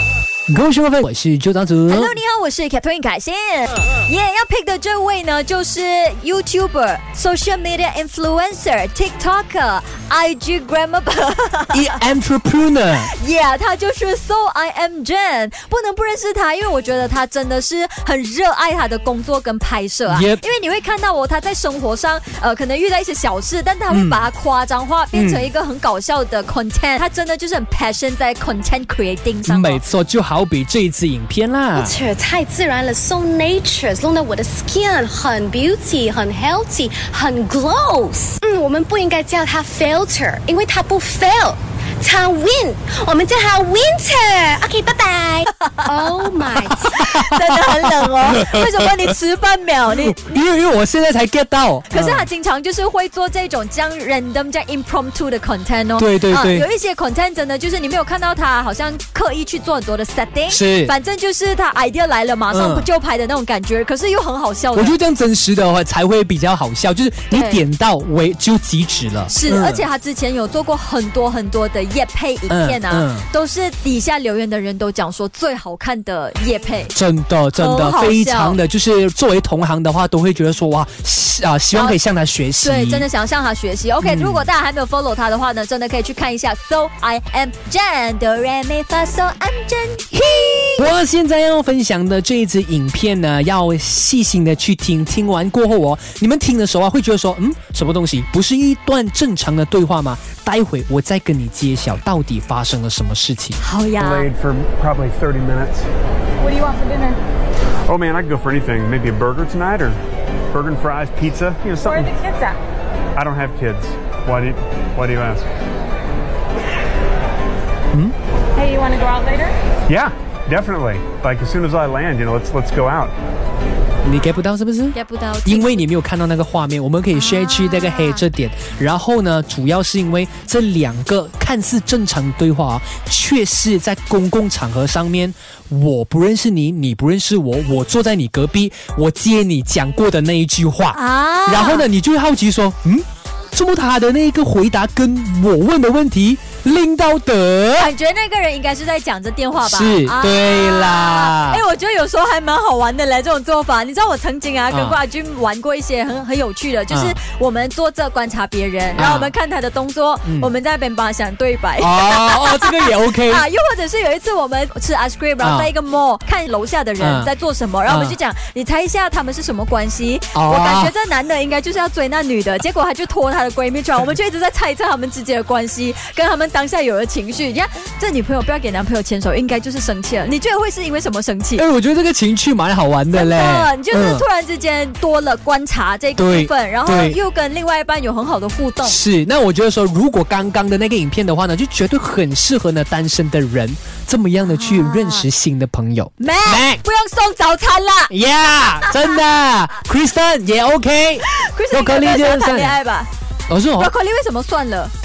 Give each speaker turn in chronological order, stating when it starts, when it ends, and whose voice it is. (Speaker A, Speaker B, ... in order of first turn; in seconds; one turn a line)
Speaker A: 0.5-2.1
Speaker B: 1.9-11.9
Speaker A: 11.7-13.1
Speaker B: 13.0-29.8
Speaker A: 20.1-20.4
Speaker A: 23.9-24.3
Speaker A: 25.1-25.5
Speaker A: 29.5-31.9
Speaker C: 31.8-46.9
Speaker B: 45.5-46.2
Speaker A: 46.7-49.1
Speaker B: 46.9-50.4
Speaker A: 49.9-52.3
Speaker B: 51.9-65.0
Speaker A: 56.0-56.7
Speaker A: 60.5-60.9
Speaker A: 62.5-62.9
Speaker A: 64.7-69.9
Speaker B: 67.3-67.6
Speaker B: 69.3-76.9
Speaker A: 72.5-73.3
Speaker A: 76.9-83.1
Speaker B: 77.5-78.6
Speaker B: 81.7-82.0
Speaker B: 82.6-90.9
Speaker A: 84.0-84.5
Speaker A: 90.8-103.6
Speaker B: 103.6-104.3
Speaker D: 104.0-105.9
Speaker E: 106.4-107.2
Speaker D: 107.9-110.0
Speaker D: 110.5-112.1
Speaker E: 111.8-112.6
Speaker D: 113.2-115.5
Speaker E: 118.5-119.5
Speaker D: 119.9-123.1
Speaker A: 124.0-147.9
Speaker B: 124.9-125.9
Speaker B: 127.1-128.2
Speaker B: 140.9-141.9
Speaker B: 147.8-181.7
Speaker A: 149.6-151.6
Speaker A: 154.7-155.0
Speaker A: 156.9-157.2
Speaker A: 159.0-159.3
Speaker A: 160.2-160.5
Speaker A: 161.8-163.5
Speaker A: 165.4-165.7
Speaker A: 167.0-167.3
Speaker A: 167.9-168.2
Speaker A: 170.3-170.9
Speaker A: 181.6-184.3
Speaker B: 183.1-189.0
Speaker A: 186.2-187.2
Speaker A: 188.8-196.8
Speaker B: 194.4-195.3
Speaker B: 196.2-198.1
Speaker A: 198.1-202.8
Speaker B: 198.8-199.2
Speaker B: 201.2-203.1
Speaker A: 203.5-203.9
Speaker B: 203.8-204.9